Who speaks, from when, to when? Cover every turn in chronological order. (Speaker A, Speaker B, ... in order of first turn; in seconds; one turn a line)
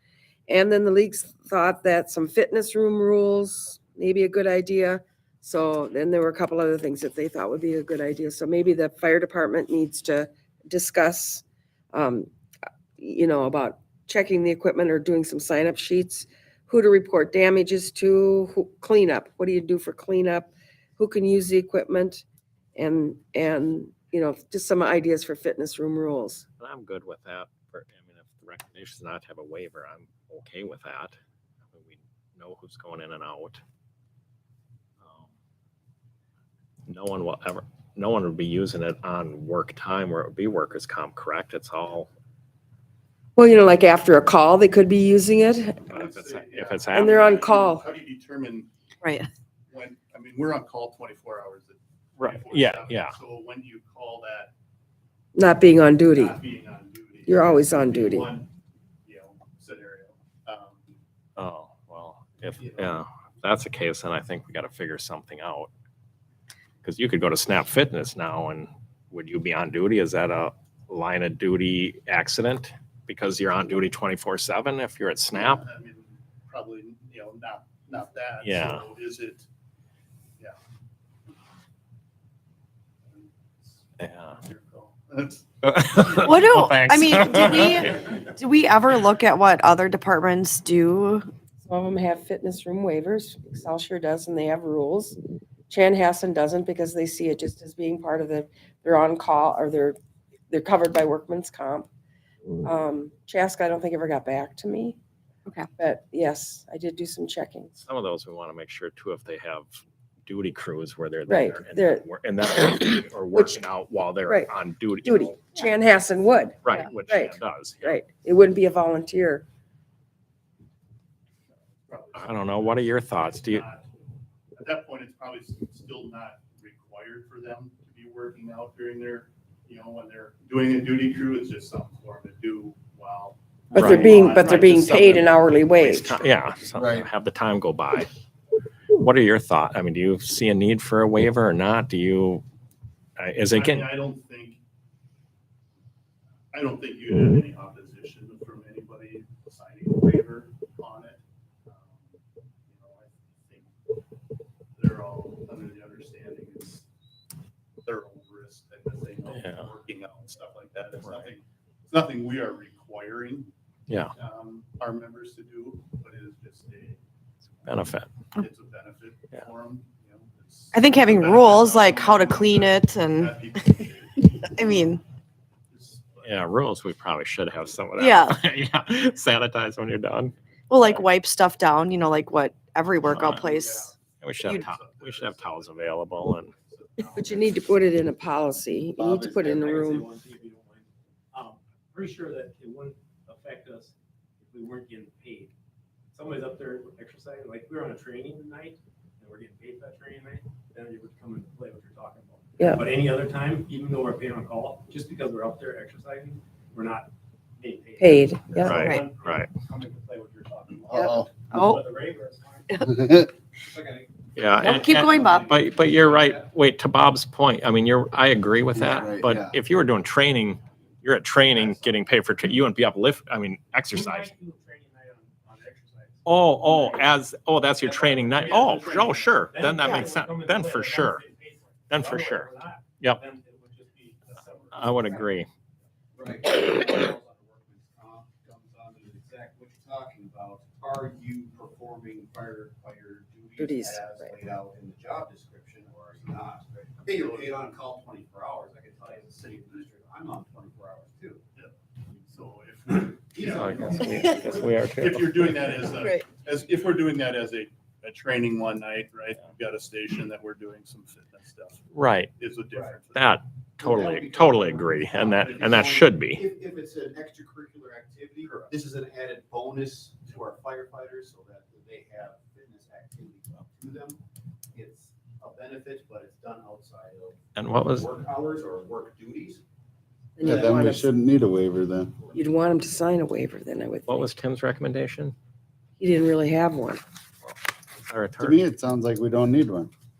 Speaker A: 0.5-12.3
Speaker A: 13.0-22.2
Speaker A: 22.8-26.4
Speaker B: 26.6-31.1
Speaker B: 31.7-33.6
Speaker B: 35.0-35.3
Speaker B: 36.9-42.1
Speaker A: 43.4-45.8
Speaker C: 45.9-48.7
Speaker B: 45.9-47.2
Speaker A: 46.9-47.8
Speaker D: 49.0-49.3
Speaker C: 49.7-54.5
Speaker B: 52.2-53.1
Speaker A: 55.3-56.4
Speaker C: 56.1-58.5
Speaker A: 57.3-58.3
Speaker C: 59.0-60.9
Speaker B: 61.4-65.7
Speaker C: 62.5-63.0
Speaker B: 66.8-75.6
Speaker C: 75.3-79.5
Speaker B: 78.4-78.8
Speaker C: 83.0-86.7
Speaker B: 84.0-84.4
Speaker B: 85.6-88.1
Speaker D: 86.2-91.3
Speaker A: 91.6-95.2
Speaker A: 95.7-100.0
Speaker A: 100.5-101.9
Speaker A: 102.6-105.0
Speaker A: 105.8-107.8
Speaker B: 107.8-115.4
Speaker A: 111.3-112.0
Speaker A: 113.3-113.6
Speaker A: 115.0-119.4
Speaker B: 116.6-118.0
Speaker C: 121.5-123.8
Speaker B: 122.1-123.6
Speaker C: 124.5-135.8
Speaker B: 133.7-134.6
Speaker A: 133.7-136.2
Speaker B: 135.8-138.1
Speaker E: 136.7-137.1
Speaker B: 138.9-142.4
Speaker B: 143.2-143.9
Speaker C: 143.5-144.6
Speaker C: 146.5-152.2
Speaker C: 152.7-153.7
Speaker C: 154.8-156.8
Speaker C: 157.8-163.5
Speaker B: 159.3-159.7
Speaker C: 164.2-167.0
Speaker B: 167.6-168.1
Speaker C: 168.3-174.9
Speaker D: 170.7-173.8
Speaker D: 174.4-175.0
Speaker C: 175.7-176.4
Speaker B: 176.2-181.1
Speaker D: 178.0-178.3
Speaker D: 180.7-183.9
Speaker C: 183.0-187.9
Speaker B: 183.0-183.5
Speaker B: 184.2-186.5
Speaker A: 187.1-190.1
Speaker F: 189.0-193.9
Speaker F: 194.5-195.5
Speaker F: 196.1-212.8
Speaker A: 202.6-202.8
Speaker A: 208.0-208.8
Speaker B: 208.5-209.5
Speaker E: 210.9-211.3
Speaker D: 211.5-211.8
Speaker E: 212.8-213.3
Speaker G: 213.7-216.4
Speaker B: 214.3-224.3
Speaker D: 214.6-215.5
Speaker F: 214.8-216.1
Speaker E: 218.7-219.6
Speaker F: 223.9-227.1
Speaker B: 226.2-231.2
Speaker F: 227.8-228.8
Speaker C: 228.4-229.4
Speaker F: 229.4-235.4
Speaker D: 229.8-230.1
Speaker B: 231.9-233.2
Speaker C: 234.2-234.9
Speaker B: 234.7-235.5
Speaker G: 236.2-251.4
Speaker A: 243.6-244.3
Speaker C: 247.0-247.6
Speaker C: 251.6-261.8
Speaker G: 253.2-254.8
Speaker B: 253.5-256.0
Speaker D: 255.9-256.2
Speaker B: 261.9-262.3
Speaker C: 262.4-263.4
Speaker G: 262.7-263.0
Speaker B: 263.1-266.4
Speaker G: 263.8-274.2
Speaker C: 268.4-268.7
Speaker G: 274.7-279.6
Speaker B: 277.6-278.1
Speaker A: 280.4-281.1
Speaker E: 280.4-282.2
Speaker A: 282.3-284.2
Speaker B: 284.1-285.3
Speaker A: 286.0-287.0
Speaker B: 288.0-288.6
Speaker E: 288.4-289.9